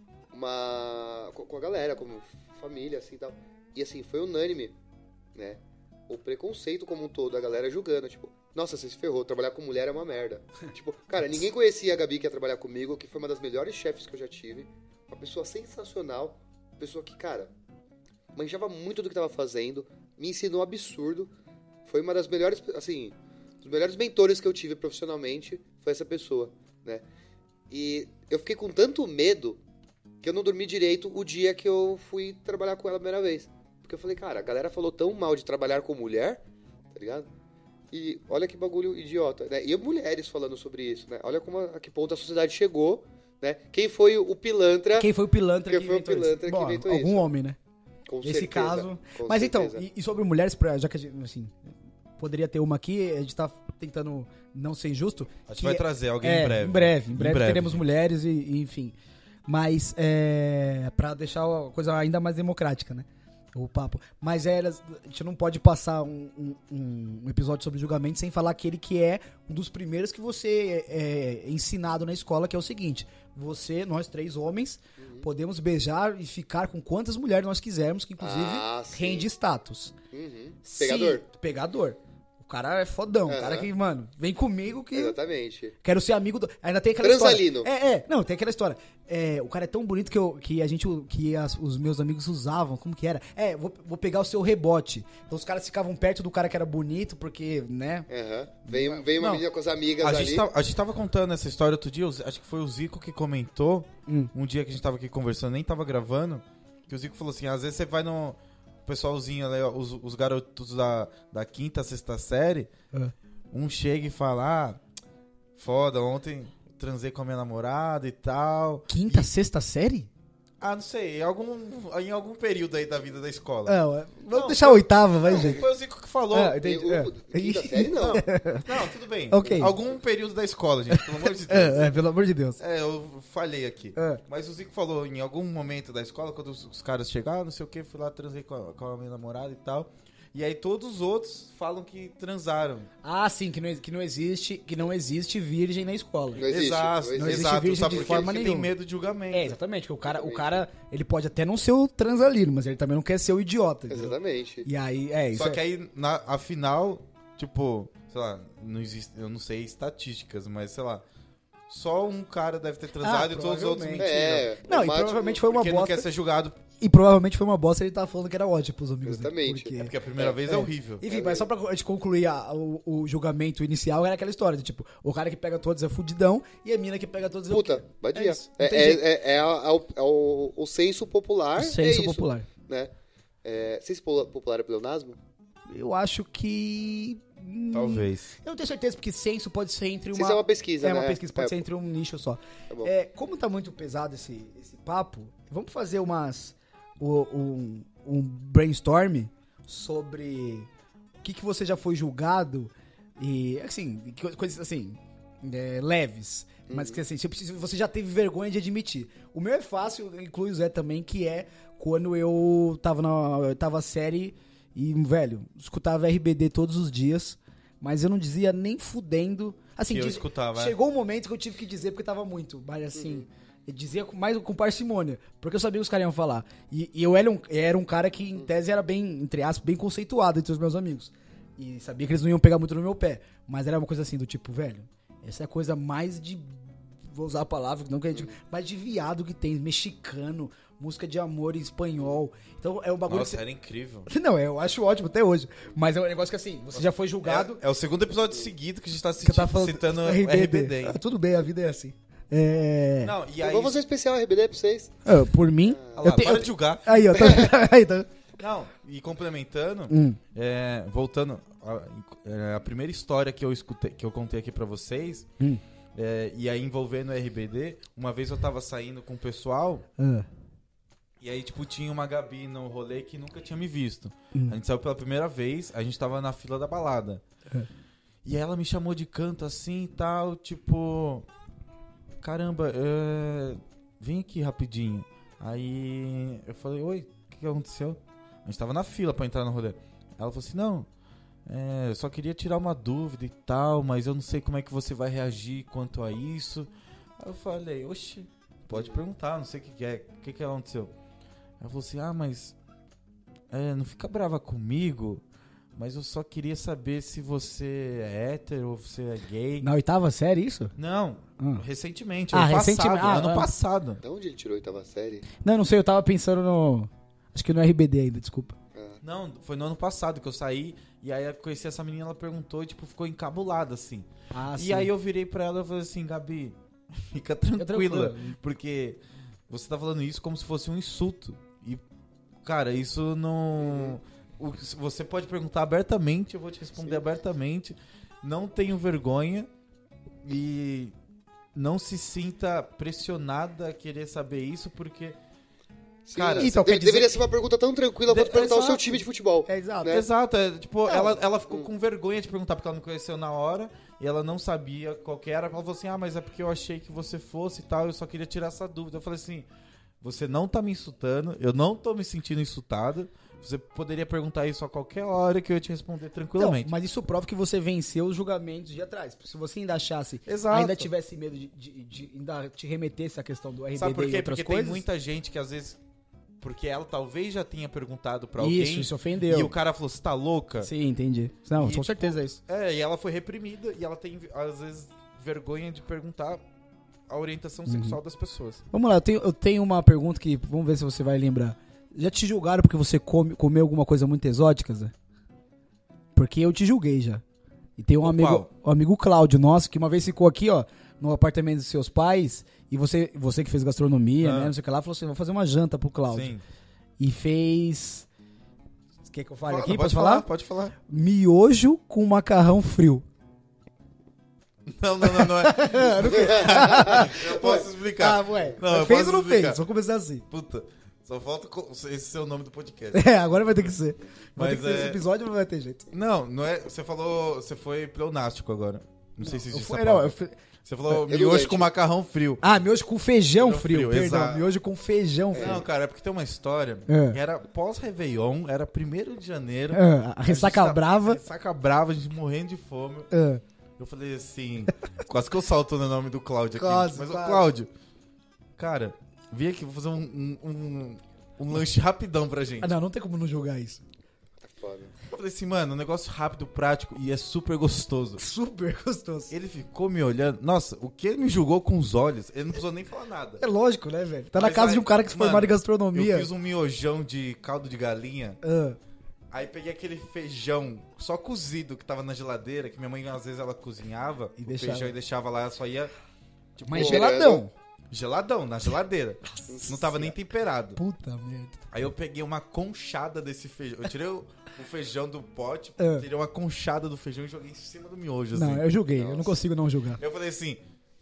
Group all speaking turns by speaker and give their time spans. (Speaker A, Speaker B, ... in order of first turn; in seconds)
Speaker A: 0.3-4.7, 5.3-17.5, 18.3-21.3, 21.9-27.0, 27.7-29.6, 30.2-36.4, 36.9-37.3, 37.9-45.1, 45.6-47.2, 48.1-49.8, 75.0-75.3, 78.2-79.3, 80.1-81.2, 83.3-83.7, 84.9-85.7, 87.0-87.7, 98.1-100.5, 126.6-128.2, 146.3-148.4, 150.0-150.6, 153.9-154.7, 164.0-165.4, 169.0-171.5, 177.5-182.9, 183.4-185.2, 190.1-191.6, 206.7-207.0, 222.9-223.3, 253.4-254.9, 255.6-256.1, 257.2-257.5, 298.7-299.0, 314.0-315.2, 318.7-319.0, 333.6-334.0, 336.8-337.0, 346.1-350.1, 416.1-417.0, 431.1-431.7, 435.3-435.6, 454.4-454.9, 476.7-477.4, 488.9-489.4
Speaker B: 45.0-47.6, 48.2-58.9, 59.5-80.0, 80.6-85.2, 85.8-98.1, 98.7-99.4, 104.0-104.3, 118.9-120.1, 123.7-125.6, 126.3-129.8, 130.9-132.6, 133.9-134.2, 143.0-146.5, 147.1-148.7, 149.3-155.6, 163.0-166.1, 166.8-169.9, 170.4-179.0, 181.5-182.5, 185.7-200.7, 201.2-243.4, 244.1-247.6, 249.2-253.1, 255.0-258.1, 259.9-260.2, 270.0-270.3, 309.6-310.7, 312.3-313.5, 315.4-318.6, 324.3-324.9, 327.6-328.4, 346.3-347.2, 349.4-350.0, 350.9-351.2, 366.4-374.8, 378.4-379.5, 380.6-382.4, 387.6-388.0, 388.7-394.9, 396.1-397.2, 397.8-406.3, 407.0-408.1, 409.1-410.2, 410.9-413.0, 415.0-420.2, 422.9-425.9, 429.2-430.4, 432.4-435.6, 436.9-437.2, 439.7-441.2, 443.1-443.4, 446.5-447.5, 452.6-453.8, 458.2-459.3, 463.4-466.3, 468.4-468.8, 474.4-474.9, 476.7-477.5, 479.5-480.1, 480.8-481.6, 485.8-486.1, 488.3-490.0
Speaker C: 55.5-57.8, 100.0-112.7, 113.5-114.8, 115.5-119.3, 120.6-123.8, 124.3-126.6, 128.6-132.0, 132.6-142.9, 146.5-149.6, 155.3-161.0, 161.7-164.5, 165.5-166.6, 169.8-171.0, 187.7-188.3, 219.9-220.8, 243.1-244.1, 247.2-251.0, 253.0-253.8, 256.0-257.5, 258.4-265.3, 265.9-269.8, 271.2-277.2, 278.2-281.2, 282.2-290.9, 291.5-300.9, 301.6-302.5, 303.5-305.2, 305.7-309.7, 310.8-314.0, 319.0-326.6, 327.1-331.8, 332.4-339.5, 340.2-340.9, 341.5-345.2, 346.1-346.6, 348.1-349.0, 349.8-359.5, 360.0-366.7, 370.2-370.9, 373.7-375.8, 376.4-380.7, 381.5-386.4, 387.1-388.6, 398.0-398.5, 404.2-404.5, 406.1-406.4, 409.5-410.7, 414.7-419.6, 420.3-423.0, 424.4-425.0, 425.9-432.4, 433.3-434.4, 435.3-443.1, 443.8-447.7, 448.6-452.7, 455.1-458.2, 459.3-463.4, 464.3-468.4, 469.3-475.9, 476.6-477.1, 477.9-480.8, 481.7-488.6, 490.0-490.6